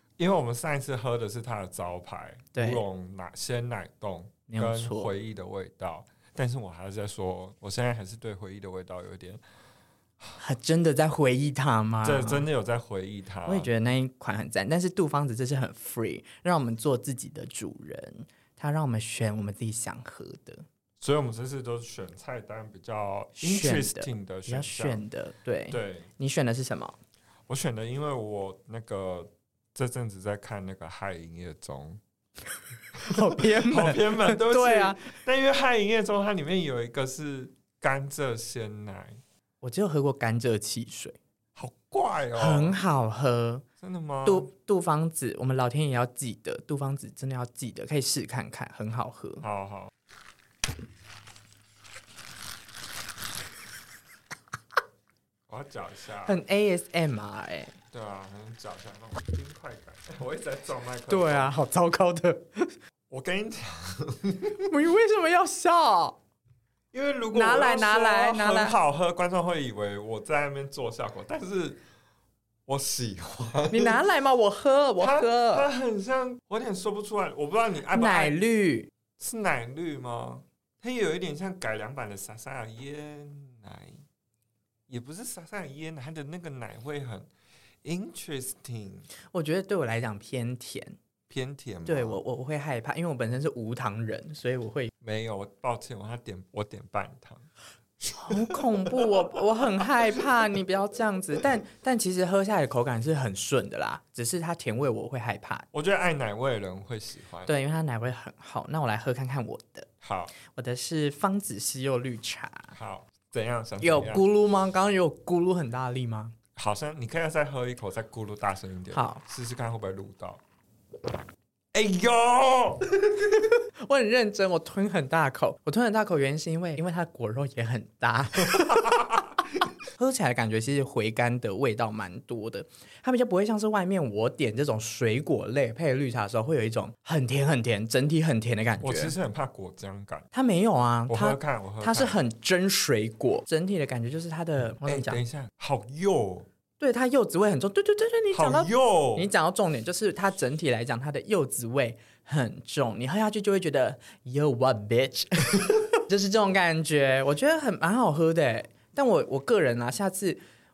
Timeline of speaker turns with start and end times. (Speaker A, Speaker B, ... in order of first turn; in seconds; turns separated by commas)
Speaker A: 0.2-9.4, Speaker B: 2.5-2.8, Speaker B: 4.5-5.1, Speaker B: 10.4-12.5, Speaker A: 12.0-13.7, Speaker B: 13.5-20.6, Speaker A: 21.0-25.0, Speaker B: 23.4-27.0, Speaker A: 25.7-26.1, Speaker A: 27.5-32.0, Speaker A: 33.0-39.2, Speaker B: 33.0-35.1, Speaker B: 39.6-41.2, Speaker A: 41.6-42.8, Speaker B: 42.4-43.6, Speaker A: 43.8-44.5, Speaker B: 44.2-49.4, Speaker A: 49.4-49.9, Speaker A: 55.5-56.4, Speaker B: 56.3-57.8, Speaker A: 57.9-61.5, Speaker B: 61.1-62.8, Speaker A: 63.1-64.7, Speaker B: 64.7-66.2, Speaker A: 66.9-71.8, Speaker B: 67.3-68.8, Speaker A: 72.7-74.0, Speaker B: 73.7-75.7, Speaker A: 75.0-78.4, Speaker B: 77.9-78.9, Speaker A: 79.2-84.0, Speaker A: 84.9-87.3, Speaker A: 87.8-89.1, Speaker B: 89.3-91.0, Speaker A: 91.3-92.2, Speaker B: 91.9-94.9, Speaker A: 95.0-97.5, Speaker A: 98.1-98.6, Speaker B: 98.2-105.7, Speaker A: 105.7-107.5, Speaker B: 107.5-112.7, Speaker A: 110.0-110.3, Speaker A: 112.7-114.2, Speaker B: 113.8-116.3, Speaker A: 116.6-120.4, Speaker B: 118.9-119.2, Speaker A: 121.7-123.3, Speaker B: 123.8-128.8, Speaker A: 128.5-129.3, Speaker B: 130.0-139.2, Speaker A: 138.8-140.3, Speaker B: 140.3-145.2, Speaker A: 141.1-142.2, Speaker A: 144.8-146.5, Speaker B: 146.8-160.4, Speaker A: 148.3-149.3